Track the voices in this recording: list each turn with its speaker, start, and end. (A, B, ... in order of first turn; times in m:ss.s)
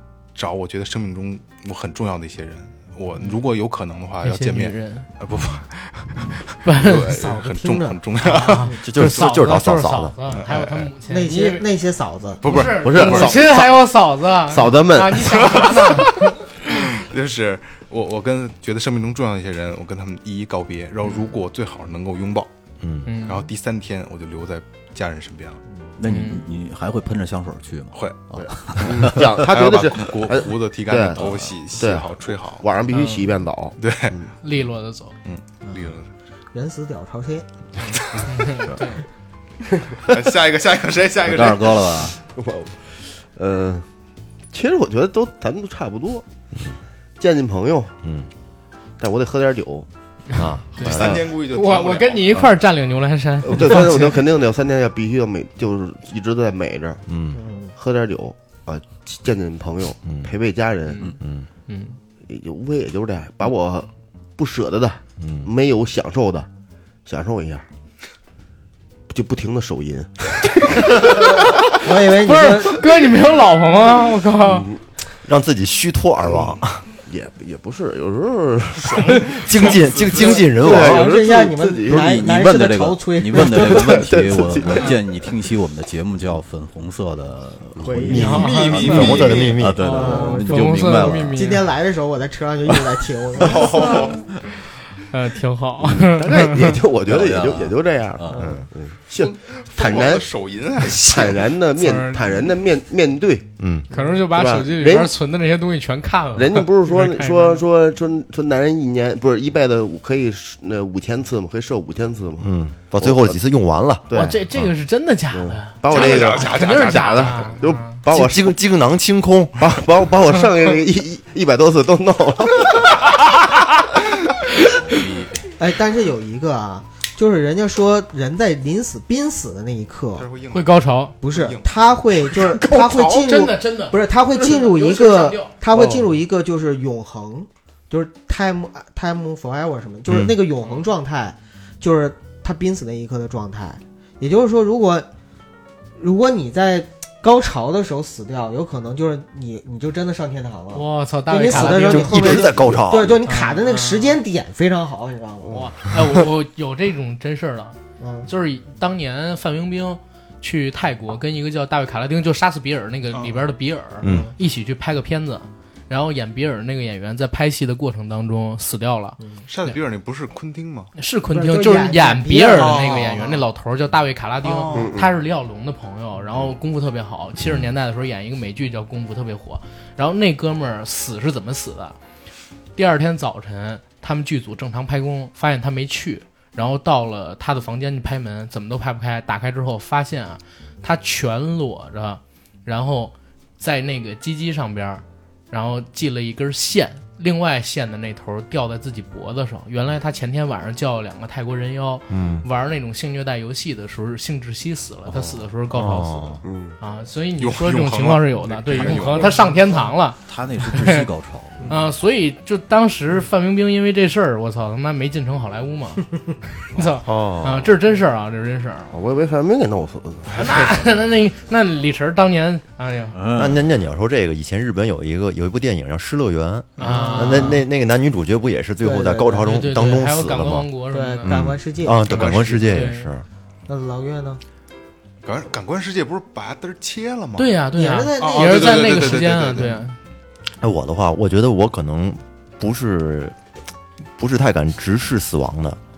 0:00.3-0:08.7 A
0:04.2-0:05.1 B
0:06.6-0:07.3 B
0:06.9-0:08.8 C
0:08.2-0:11.7 B
0:08.8-0:10.2 D
0:10.3-0:10.9 A
0:11.1-0:12.7 C
0:12.4-0:13.3 A
0:12.4-0:16.3 B
0:12.7-0:13.8 E
0:14.4-0:15.2 E
0:15.3-0:22.5 A
0:22.8-0:23.1 D
0:23.0-0:23.5 B
0:23.2-0:25.6 A
0:26.0-0:29.3 F
0:26.0-0:26.4 B
0:27.9-0:28.2 A
0:28.3-0:34.3 E
0:28.8-0:32.6 A
0:32.9-0:33.3 B
0:33.8-0:34.2 A
0:34.4-0:35.1 B
0:35.2-0:36.1 A
0:35.7-0:35.9 C
0:36.5-0:37.5 C
0:37.8-0:39.0 B
0:38.5-0:38.8 F
0:40.1-0:42.0 A
0:41.2-0:42.2 F
0:42.3-0:43.8 E
0:44.5-0:46.2 E
0:47.2-0:47.9 E
0:48.0-0:48.3 D
0:49.0-0:49.9 E
0:50.3-0:51.2 D
0:50.4-0:54.1 B
0:50.8-0:52.3 A
0:51.0-0:51.2 E
0:53.4-0:57.0 E
0:57.1-0:57.4 D
0:57.3-0:57.7 C
0:57.8-1:01.1 E
1:00.0-1:00.3 D
1:01.2-1:01.5 D
1:01.7-1:02.0 B
1:02.3-1:06.5 E
1:05.2-1:05.5 D
1:07.0-1:07.6 E
1:09.1-1:11.2 E
1:11.8-1:12.8 C
1:12.2-1:14.7 B
1:14.4-1:14.8 E
1:15.2-1:16.8 D
1:16.2-1:19.3 E
1:18.8-1:20.4 A
1:19.4-1:21.1 D
1:20.1-1:22.0 E
1:20.3-1:24.2 C
1:21.9-1:31.6 F
1:23.4-1:24.9 E
1:27.8-1:28.4 E
1:28.0-1:30.0 D
1:28.1-1:31.6 B
1:29.9-1:30.6 C
1:31.3-1:34.2 C
1:33.4-1:34.2 A
1:35.0-1:36.8 B
1:36.0-1:40.3 E
1:37.1-1:38.6 F
1:38.3-1:38.7 D
1:39.2-1:41.5 A
1:40.8-1:45.1 E
1:41.8-1:42.4 B
1:43.6-1:43.9 D
1:43.9-1:47.6 B
1:46.4-1:53.4 E
1:52.4-1:54.7 D
1:54.1-1:54.4 E
1:54.1-1:58.0 B
1:55.3-1:58.6 E
1:55.9-1:57.5 A
1:58.0-1:59.8 D
1:59.6-2:03.1 E
2:04.9-2:05.2 A
2:05.6-2:10.3 C
2:10.1-2:11.7 A
2:10.5-2:11.1 B
2:11.2-2:25.1 C
2:12.7-2:15.5 B
2:15.7-2:16.1 E
2:26.0-2:35.6 C
2:30.7-2:32.4 B
2:31.5-2:33.2 D
2:32.2-2:32.8 E
2:33.2-2:34.2 B
2:35.4-2:35.7 E
2:35.5-2:49.8 B
2:38.0-2:38.3 C
2:44.0-2:44.3 D
2:44.0-2:44.3 C
2:49.2-2:49.5 C
2:49.5-2:50.9 A
2:51.0-3:02.0 B
2:51.3-2:53.2 C
2:52.6-2:53.3 A
2:54.4-2:54.9 A
2:54.7-2:55.1 E
3:02.8-3:31.1 B
3:22.1-3:22.4 D
3:25.1-3:25.5 F
3:25.7-3:26.4 D
3:26.4-3:26.8 E
3:27.4-3:29.5 A
3:30.2-3:31.7 F
3:31.7-3:36.1 B
3:36.7-3:38.9 B
3:37.0-3:37.7 D
3:38.9-3:40.8 E
3:40.3-3:43.2 B
3:43.1-3:43.6 F
3:43.3-3:53.3 D
3:46.8-3:47.6 B
3:46.8-3:47.6 C
3:48.8-3:49.5 C
3:49.4-3:51.5 B
3:50.9-3:52.6 C
3:52.0-3:53.1 B
3:52.1-3:52.6 A
3:53.7-3:54.4 C
3:55.2-3:57.6 A
3:57.4-4:00.0 B
3:57.7-3:59.6 C
3:58.2-3:59.8 A
4:00.6-4:03.4 D
4:04.2-4:05.8 D